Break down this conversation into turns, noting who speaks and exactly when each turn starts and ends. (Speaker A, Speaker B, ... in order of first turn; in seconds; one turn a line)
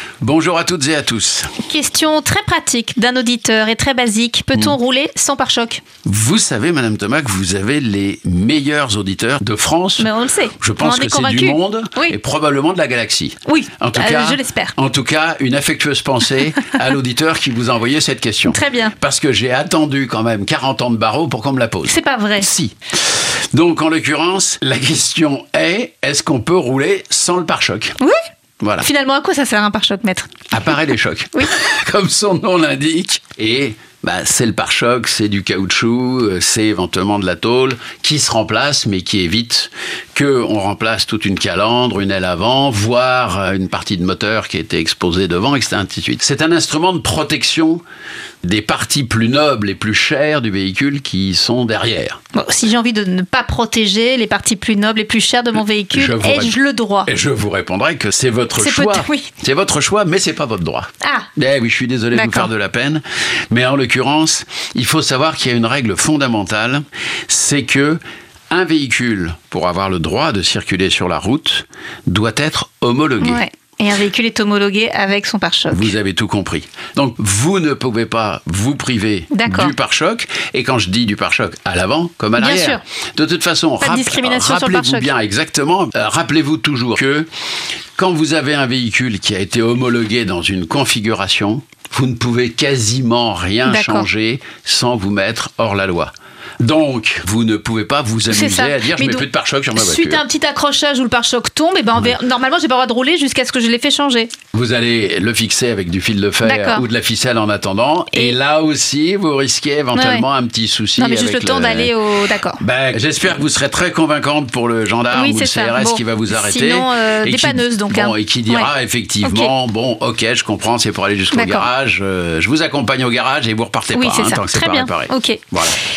Speaker A: 0.2-1.5
Speaker B: 1.6-5.8
Speaker A: 6.0-27.9
Speaker B: 10.0-12.2
Speaker B: 13.4-14.7
Speaker B: 18.5-18.9
Speaker B: 21.9-22.5
Speaker A: 28.6-28.9
Speaker B: 28.8-30.5
Speaker A: 30.5-47.8
Speaker A: 48.4-52.2
Speaker B: 52.3-57.1
Speaker A: 55.9-73.4
Speaker B: 58.6-59.3
Speaker B: 61.0-61.3
Speaker B: 62.1-62.5
Speaker B: 73.2-75.9
Speaker A: 75.7-87.3
Speaker B: 79.3-79.7
Speaker B: 82.4-82.8
Speaker B: 83.8-85.1
Speaker A: 88.0-100.2
Speaker B: 93.7-94.1
Speaker B: 98.3-104.3
Speaker A: 104.5-111.9
Speaker B: 106.4-106.8
Speaker B: 109.9-110.2
Speaker B: 111.0-112.6
Speaker A: 112.6-125.8
Speaker B: 115.1-118.7
Speaker B: 119.2-119.5
Speaker B: 121.3-121.7
Speaker B: 123.9-125.5